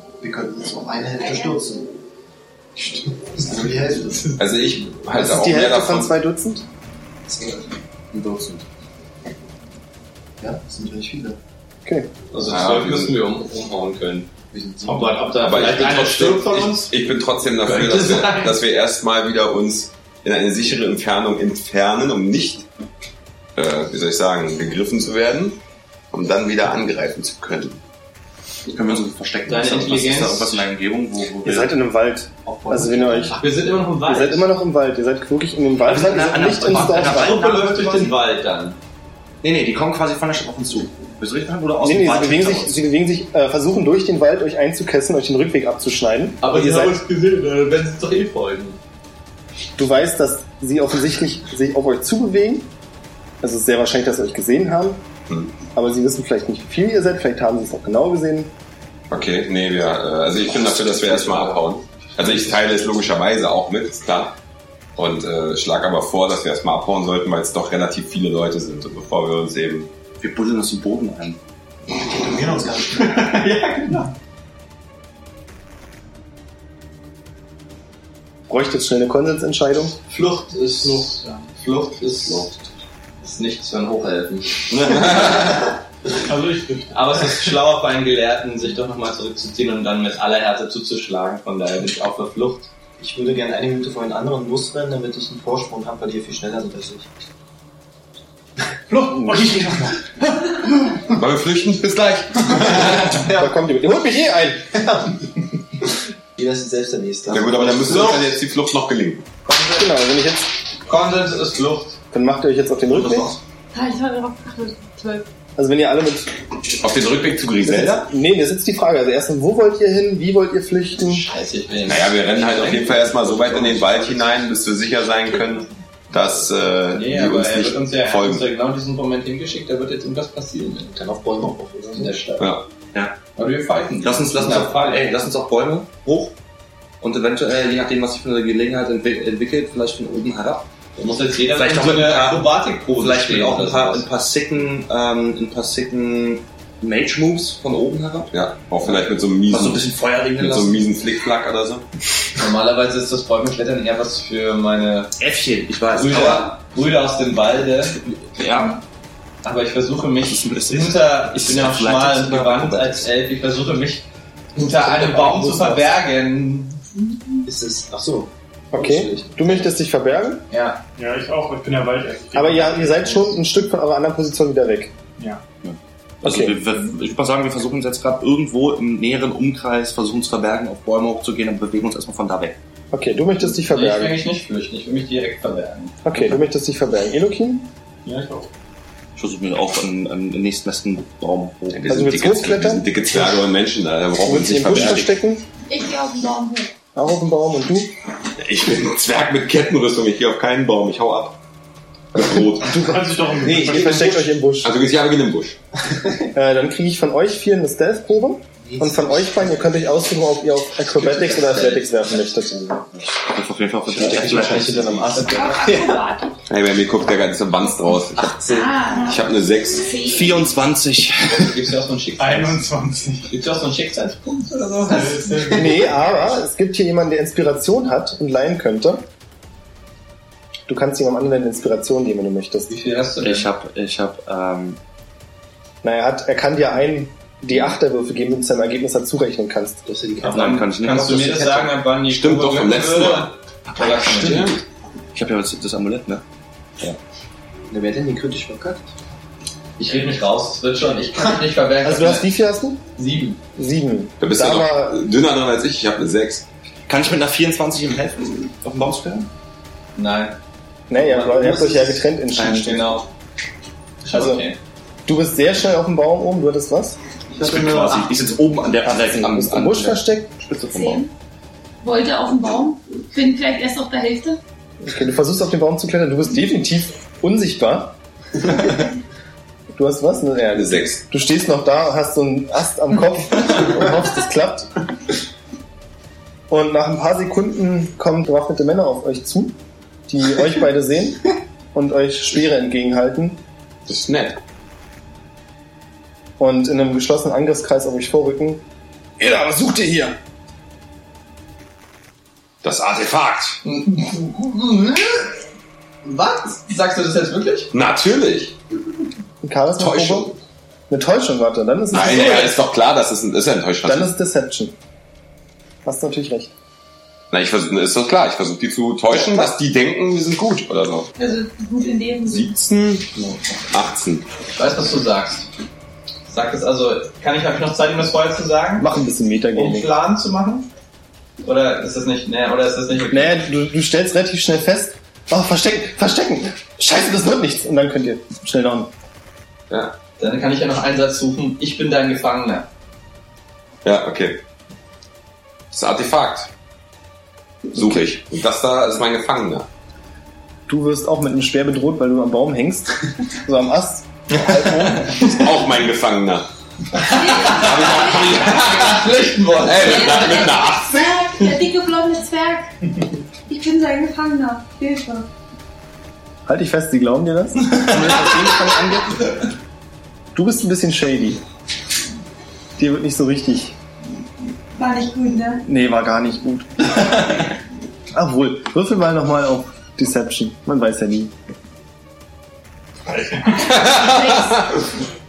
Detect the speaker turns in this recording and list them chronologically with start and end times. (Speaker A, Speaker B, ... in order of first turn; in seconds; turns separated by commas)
Speaker A: 0.2-1.8, Speaker B: 1.2-1.7, Speaker A: 3.2-4.3, Speaker C: 4.3-6.1, Speaker D: 5.1-6.6, Speaker A: 7.3-7.7, Speaker E: 8.1-8.6, Speaker A: 10.4-11.4, Speaker D: 11.8-12.1, Speaker F: 12.3-14.3, Speaker C: 12.4-13.1, Speaker A: 14.5-15.0, Speaker E: 14.8-15.1, Speaker F: 14.8-16.9, Speaker C: 15.4-22.6, Speaker F: 17.6-18.6, Speaker C: 23.6-25.6, Speaker C: 26.1-27.8, Speaker E: 28.7-31.7, Speaker F: 29.4-30.6, Speaker D: 31.4-33.4, Speaker A: 32.5-33.4, Speaker F: 33.3-34.5, Speaker D: 34.0-37.4, Speaker E: 35.8-38.2, Speaker F: 36.8-38.8, Speaker E: 39.4-42.8, Speaker D: 41.8-47.0, Speaker F: 46.4-48.8, Speaker D: 49.8-52.7, Speaker D: 53.4-55.0, Speaker C: 55.3-55.5, Speaker D: 55.7-58.5, Speaker C: 59.1-64.3, Speaker E: 60.6-62.7, Speaker C: 65.0-69.9, Speaker E: 70.2-71.4, Speaker A: 71.9-73.4, Speaker F: 73.0-74.1, Speaker D: 78.5-80.0, Speaker F: 80.1-82.5, Speaker G: 80.8-81.5, Speaker E: 82.2-82.7, Speaker F: 83.2-85.5, Speaker C: 84.8-85.5, Speaker G: 86.2-86.9, Speaker F: 86.9-92.7, Speaker A: 93.0-97.1, Speaker G: 98.9-100.0, Speaker D: 99.1-99.5, Speaker C: 101.1-103.3, Speaker A: 102.8-103.5, Speaker D: 103.3-104.7, Speaker A: 104.7-105.2, Speaker A: 106.3-108.3, Speaker C: 107.3-109.2, Speaker D: 109.7-110.5, Speaker F: 110.8-112.0, Speaker D: 112.1-113.3, Speaker E: 112.9-113.3, Speaker B: 113.7-115.2, Speaker D: 115.6-116.3, Speaker C: 116.8-118.1, Speaker D: 117.6-121.2, Speaker F: 121.0-124.4, Speaker C: 121.8-128.4, Speaker F: 126.9-131.0, Speaker A: 130.9-132.4, Speaker F: 131.9-132.4, Speaker C: 132.4-132.6, Speaker E: 132.9-133.2, Speaker F: 133.3-135.1, Speaker E: 134.0-136.3, Speaker E: 137.0-140.7, Speaker F: 140.9-144.1, Speaker E: 141.5-148.3, Speaker C: 148.3-151.8, Speaker E: 149.5-150.9, Speaker F: 152.4-155.1, Speaker E: 155.2-156.6, Speaker F: 155.9-158.0, Speaker E: 158.3-158.8, Speaker F: 159.4-164.0, Speaker E: 160.2-163.1, Speaker F: 164.5-167.0, Speaker A: 164.9-165.5, Speaker A: 167.4-169.6, Speaker D: 168.7-170.4, Speaker F: 170.5-170.8, Speaker G: 170.9-173.3, Speaker D: 172.3-174.9, Speaker G: 175.2-175.4, Speaker E: 175.6-182.6, Speaker D: 176.2-176.6, Speaker D: 182.9-184.2, Speaker F: 183.5-186.3, Speaker D: 186.0-187.7, Speaker G: 188.0-188.5, Speaker E: 189.2-191.9, Speaker C: 191.7-195.1, Speaker D: 191.9-193.5, Speaker D: 194.2-195.4, Speaker B: 195.7-196.7, Speaker D: 196.9-197.9, Speaker C: 198.4-201.4, Speaker C: 202.1-202.9, Speaker D: 202.6-204.8, Speaker G: 202.7-204.2, Speaker C: 204.6-205.6, Speaker D: 206.3-213.0, Speaker A: 208.8-209.4, Speaker E: 213.2-215.4, Speaker A: 213.9-216.0, Speaker F: 215.1-215.7, Speaker B: 215.2-216.3, Speaker C: 216.5-220.0, Speaker A: 218.2-218.7, Speaker B: 218.5-220.5, Speaker E: 220.0-221.5, Speaker F: 221.3-222.6, Speaker G: 222.2-223.3, Speaker F: 223.3-225.5, Speaker G: 224.9-225.7, Speaker D: 225.5-229.1, Speaker D: 230.7-232.7, Speaker F: 232.7-233.5, Speaker E: 233.2-234.8, Speaker D: 235.8-239.8, Speaker A: 239.8-240.6, Speaker F: 240.2-244.6, Speaker E: 240.3-241.8, Speaker C: 242.1-244.6, Speaker E: 245.1-246.2, Speaker A: 247.7-248.9, Speaker F: 249.8-252.3, Speaker D: 251.8-252.8, Speaker F: 252.9-253.4, Speaker D: 253.6-254.9, Speaker C: 254.2-256.4, Speaker E: 256.9-259.3, Speaker F: 259.9-260.4, Speaker D: 260.9-262.9, Speaker F: 260.9-263.1, Speaker F: 264.0-264.6, Speaker D: 264.1-264.4, Speaker D: 265.1-267.0, Speaker F: 267.3-268.1, Speaker E: 267.4-271.0, Speaker D: 268.9-270.4, Speaker B: 270.6-271.1, Speaker B: 271.8-274.4, Speaker D: 274.8-277.9, Speaker D: 279.7-284.7, Speaker C: 280.5-281.0, Speaker D: 286.5-293.4, Speaker C: 293.9-294.4, Speaker D: 296.4-298.6, Speaker D: 299.2-300.1, Speaker C: 302.6-303.6, Speaker F: 303.6-305.2, Speaker F: 306.0-307.7, Speaker C: 307.7-308.6, Speaker D: 309.4-310.3, Speaker C: 309.8-310.4, Speaker D: 310.9-312.6, Speaker C: 311.9-314.1, Speaker D: 313.8-314.8, Speaker D: 315.8-316.5, Speaker C: 317.3-321.1, Speaker D: 319.1-319.5, Speaker B: 321.2-322.4, Speaker C: 322.2-323.1, Speaker C: 323.7-324.2, Speaker F: 324.6-325.5, Speaker F: 326.3-328.9, Speaker D: 328.8-329.9, Speaker F: 329.5-330.7, Speaker F: 331.4-333.4, Speaker D: 333.1-338.9, Speaker C: 339.7-339.9, Speaker F: 340.2-342.7, Speaker C: 343.8-344.4, Speaker C: 345.7-346.5, Speaker C: 347.7-349.7, Speaker D: 350.7-355.1, Speaker C: 355.1-356.5, Speaker B: 357.0-358.8, Speaker C: 357.1-361.2, Speaker F: 357.3-357.6, Speaker F: 358.5-360.5, Speaker B: 359.8-362.7, Speaker B: 363.5-365.3, Speaker D: 366.4-369.4, Speaker D: 370.3-371.4, Speaker D: 372.8-373.7, Speaker B: 374.8-375.6, Speaker D: 375.6-377.5, Speaker D: 378.1-381.3, Speaker G: 383.1-383.6, Speaker C: 383.5-384.8, Speaker B: 383.8-384.5